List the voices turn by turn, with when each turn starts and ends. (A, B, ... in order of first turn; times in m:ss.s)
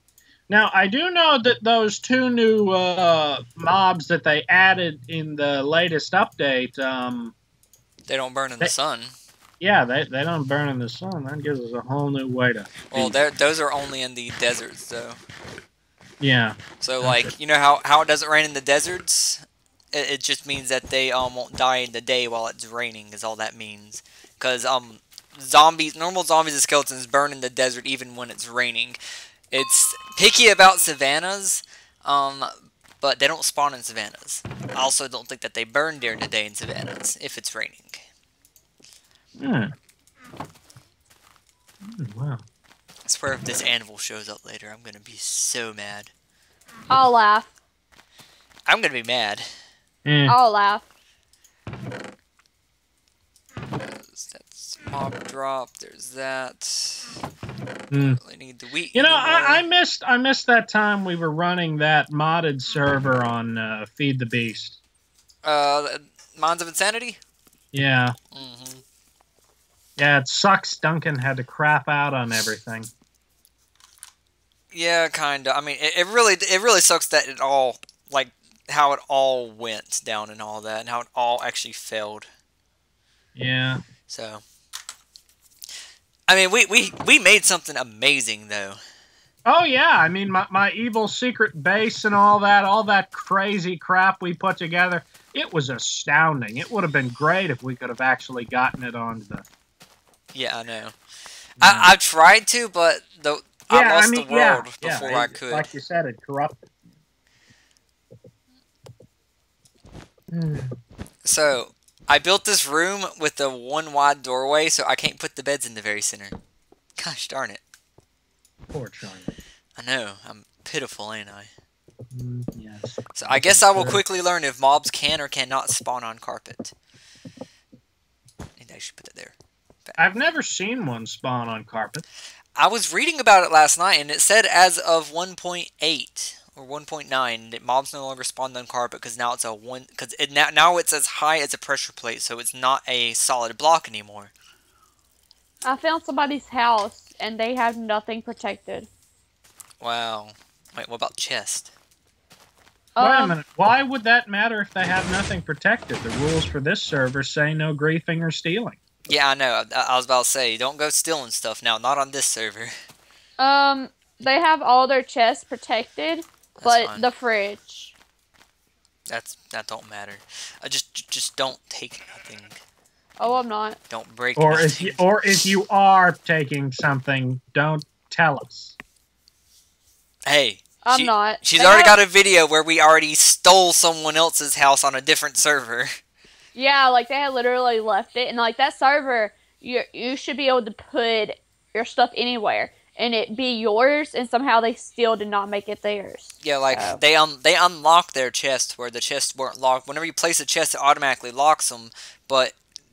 0:00.5-0:07.3 A
0:08.1-0:09.1 B
0:09.6-0:13.2 A
0:12.9-0:15.2 B
0:16.2-0:17.3 A
0:16.8-0:19.4 B
0:19.9-0:29.0 B
0:29.5-0:38.0 B
0:39.4-0:39.7 A
0:41.8-0:42.4 A
0:43.0-0:46.1 B
0:46.9-0:47.5 C
0:48.7-0:49.5 B
0:50.0-0:50.4 A
0:50.3-0:50.8 C
0:53.9-0:57.1 B
0:57.9-0:58.2 A
0:58.2-0:59.6 B
0:58.9-1:04.8 A
1:05.4-1:07.2 B
1:07.7-1:08.1 A
1:08.3-1:08.8 B
1:10.0-1:12.9 A
1:14.7-1:22.3 B
1:23.4-1:23.8 A
1:24.1-1:24.4 B
1:26.3-1:28.8 B
1:29.4-1:39.4 A
1:40.3-1:41.0 B
1:41.6-1:45.7 B
1:41.6-1:41.9 A
1:43.7-1:46.6 A
1:50.3-1:50.7 A
1:51.2-1:56.4 B
1:57.0-1:57.6 B
1:58.7-1:59.3 A
1:59.8-2:01.5 B
2:02.1-2:04.0 A
2:03.1-2:06.7 B
2:08.6-2:10.0 B
2:10.0-2:12.0 A
2:12.6-2:24.3 B
2:25.6-2:28.9 C
2:29.8-2:31.7 B
2:33.0-2:33.3 C
2:33.0-2:38.8 A
2:39.1-2:42.7 B
2:43.4-2:47.9 C
2:46.6-2:47.0 B
2:49.1-2:52.6 B
2:53.2-2:53.8 C
2:53.9-2:55.0 B
2:54.4-2:58.8 A
3:00.2-3:05.9 B
3:00.8-3:02.0 C
3:06.5-3:17.0 C
3:16.4-3:22.6 B